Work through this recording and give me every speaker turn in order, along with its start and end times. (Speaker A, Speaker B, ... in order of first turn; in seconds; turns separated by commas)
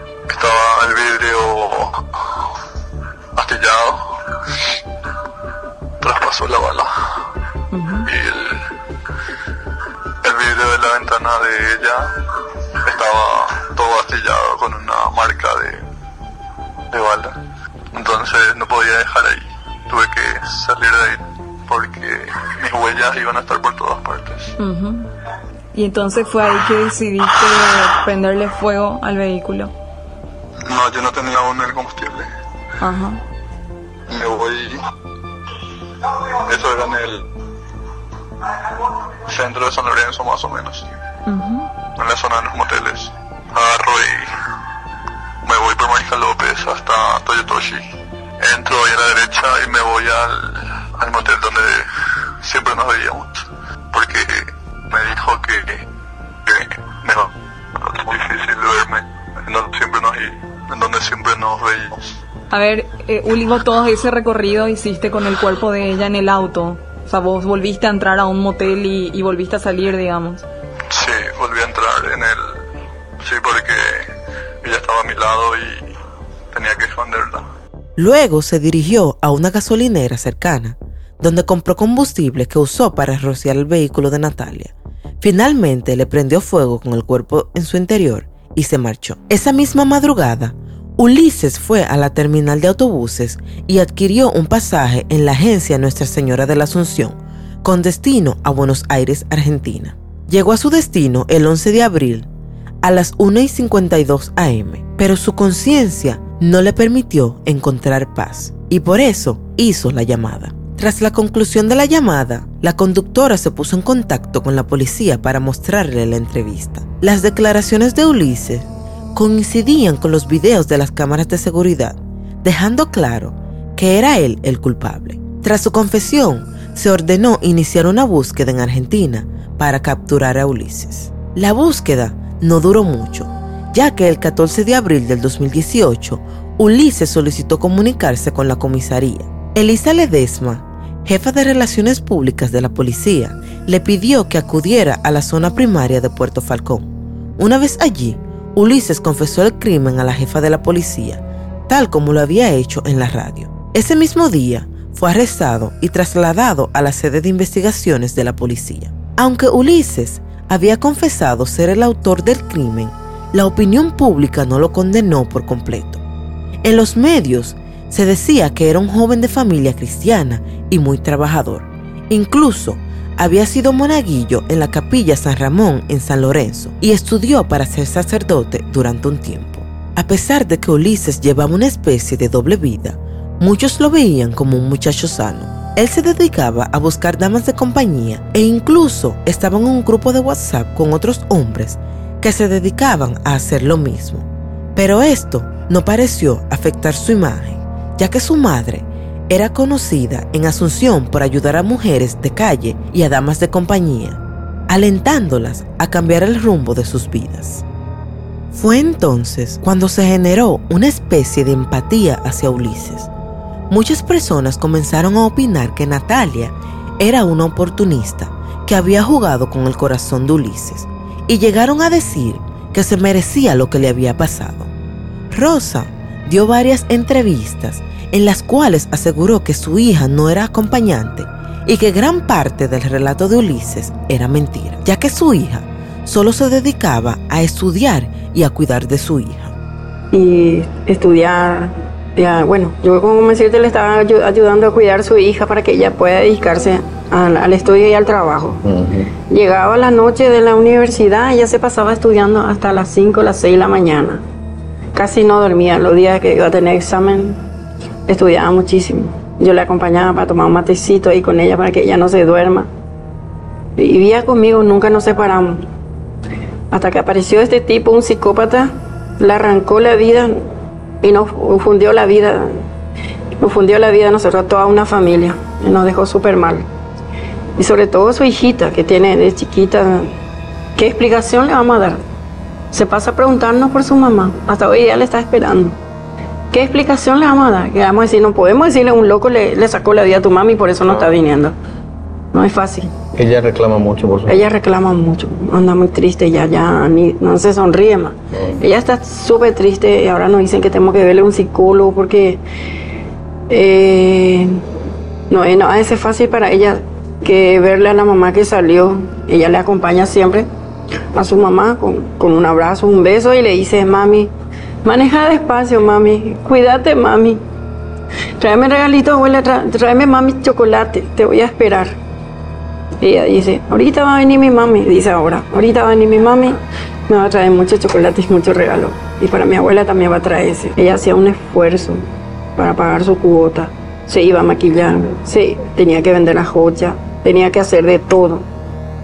Speaker A: 0.3-2.1, Speaker A: 3.4-4.1, Speaker A: 6.0-7.2, Speaker B: 7.7-8.1, Speaker A: 8.1-8.7, Speaker A: 10.2-12.1, Speaker A: 12.8-15.8, Speaker A: 16.9-17.4, Speaker A: 17.9-24.6, Speaker B: 24.6-25.1, Speaker B: 25.7-29.7, Speaker A: 30.6-32.3, Speaker B: 32.8-33.2, Speaker A: 34.1-34.8, Speaker A: 36.3-37.3, Speaker A: 39.3-40.9, Speaker B: 41.3-41.7, Speaker A: 42.0-44.4, Speaker A: 45.5-47.9, Speaker A: 48.4-51.9, Speaker A: 52.4-55.9, Speaker A: 56.5-62.2, Speaker B: 62.5-70.5, Speaker A: 70.9-72.6, Speaker A: 73.2-74.1, Speaker A: 74.6-75.9, Speaker A: 76.5-77.5, Speaker C: 78.0-102.3, Speaker C: 102.8-166.0, Speaker C: 166.6-207.7, Speaker C: 208.5-213.1, Speaker C: 213.7-224.7, Speaker C: 225.3-239.5, Speaker D: 240.1-248.6, Speaker E: 248.6-249.1, Speaker D: 249.2-254.2, Speaker D: 254.9-257.4, Speaker D: 258.1-262.7, Speaker D: 263.8-265.7, Speaker D: 266.7-270.5, Speaker D: 271.0-272.6, Speaker D: 273.4-276.7, Speaker D: 277.6-280.1, Speaker D: 280.8-282.0, Speaker D: 282.7-285.8, Speaker D: 286.5-291.6, Speaker D: 292.3-293.0, Speaker E: 293.1-294.4, Speaker D: 294.3-302.4, Speaker E: 298.3-298.6, Speaker D: 303.5-304.6, Speaker D: 305.3-310.5, Speaker D: 311.1-314.3, Speaker D: 314.8-317.4, Speaker D: 318.4-322.0, Speaker D: 323.0-332.0, Speaker D: 332.6-338.5